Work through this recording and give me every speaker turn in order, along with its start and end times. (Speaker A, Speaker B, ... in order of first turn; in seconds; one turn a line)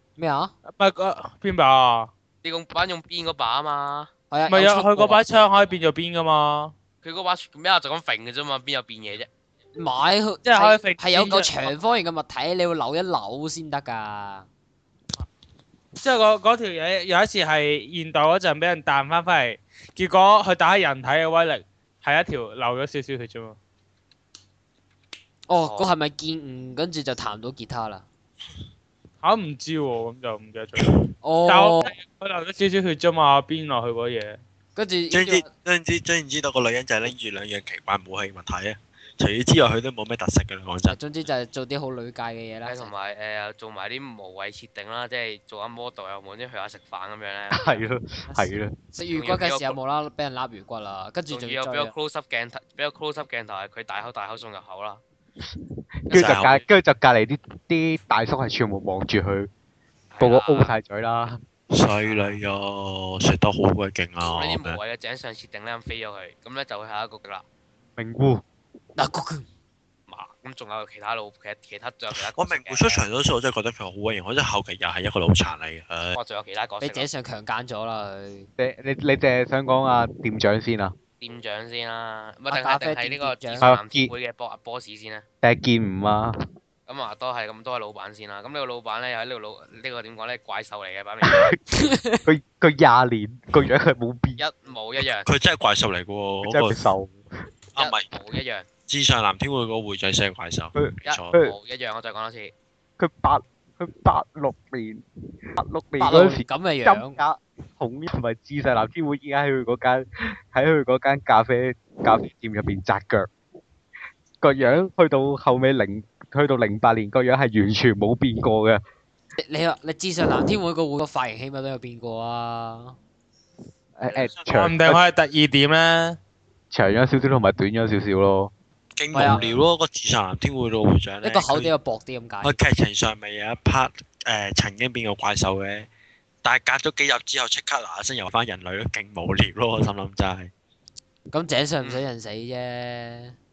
Speaker A: 0.2-0.5
Speaker B: 0.7-2.1
Speaker C: 2.4-4.1
Speaker A: 4.3-5.2
Speaker B: 4.5-6.7
Speaker C: 7.0-9.3
Speaker A: 9.7-14.5
Speaker B: 10.4-11.7
Speaker B: 16.0-23.6
Speaker A: 25.5-28.0
Speaker C: 25.6-25.9
Speaker B: 29.2-34.4
Speaker A: 31.2-31.9
Speaker A: 34.8-35.5
Speaker D: 35.1-41.0
Speaker A: 40.9-42.9
Speaker C: 42.6-47.9
Speaker E: 47.5-48.7
Speaker A: 48.9-51.9
Speaker C: 49.1-49.8
Speaker C: 51.3-55.0
Speaker E: 56.0-59.5
Speaker C: 56.1-56.5
Speaker D: 56.1-56.6
Speaker C: 60.1-60.7
Speaker E: 60.2-61.4
Speaker D: 61.7-64.8
Speaker C: 62.0-62.4
Speaker C: 64.2-67.4
Speaker E: 68.0-68.4
Speaker A: 69.0-69.5
Speaker C: 70.1-73.0
Speaker D: 72.1-76.2
Speaker C: 76.1-77.1
Speaker A: 76.8-78.5
Speaker E: 78.6-80.9
Speaker C: 81.2-85.2
Speaker A: 82.5-83.6
Speaker E: 83.6-84.1
Speaker E: 85.4-86.4
Speaker C: 86.9-91.6
Speaker E: 91.2-94.4
Speaker A: 91.7-92.2
Speaker C: 94.4-95.3
Speaker D: 95.2-96.8
Speaker E: 96.5-97.2
Speaker D: 97.7-98.1
Speaker C: 97.8-98.7
Speaker D: 98.9-101.3
Speaker E: 100.8-101.5
Speaker C: 101.0-102.5
Speaker E: 103.0-105.0
Speaker E: 105.5-113.3
Speaker A: 106.0-107.2
Speaker E: 114.4-118.8
Speaker A: 119.3-123.0
Speaker E: 124.0-125.0
Speaker D: 124.1-124.5
Speaker B: 124.5-126.2
Speaker E: 126.7-128.5
Speaker D: 128.9-131.7
Speaker A: 129.1-129.4
Speaker A: 131.2-132.6
Speaker D: 132.4-135.9
Speaker D: 136.4-140.5
Speaker A: 141.3-143.3